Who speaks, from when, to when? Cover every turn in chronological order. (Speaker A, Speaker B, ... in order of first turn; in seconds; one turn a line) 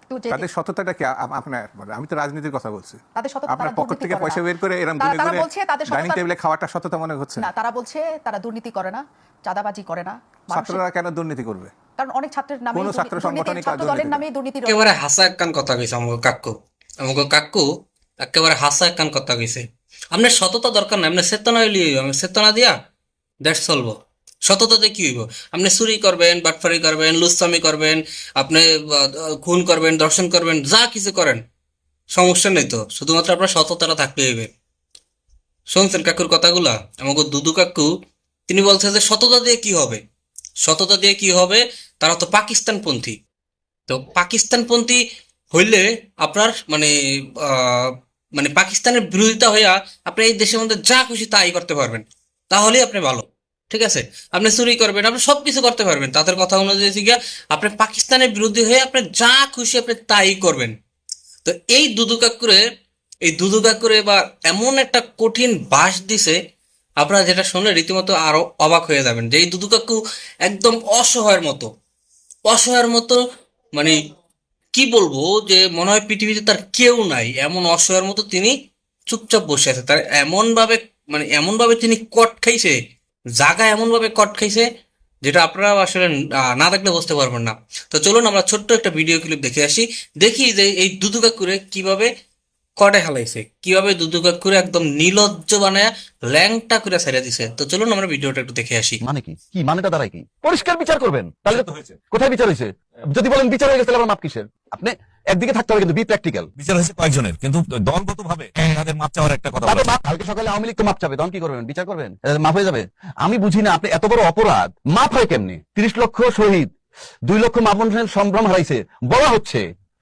Speaker A: 0.1-0.5
Speaker B: 0.3-7.5
Speaker A: 3.1-4.4
Speaker A: 5.0-6.2
Speaker A: 7.4-10.8
Speaker B: 10.5-11.7
Speaker A: 12.0-14.9
Speaker B: 12.7-14.2
Speaker C: 14.7-17.7
Speaker C: 18.2-22.8
Speaker C: 23.4-31.4
Speaker C: 32.1-34.5
Speaker C: 35.7-37.9
Speaker C: 38.5-40.0
Speaker C: 40.6-43.2
Speaker C: 43.9-45.0
Speaker C: 45.5-60.7
Speaker C: 61.4-62.6
Speaker C: 63.3-66.3
Speaker C: 67.0-71.7
Speaker C: 72.5-73.2
Speaker C: 73.7-74.0
Speaker C: 74.8-78.5
Speaker C: 79.1-82.8
Speaker C: 83.4-84.7
Speaker C: 85.2-92.1
Speaker C: 92.8-99.0
Speaker D: 99.0-106.5
Speaker E: 106.6-109.5
Speaker D: 109.6-116.7
Speaker D: 117.3-119.6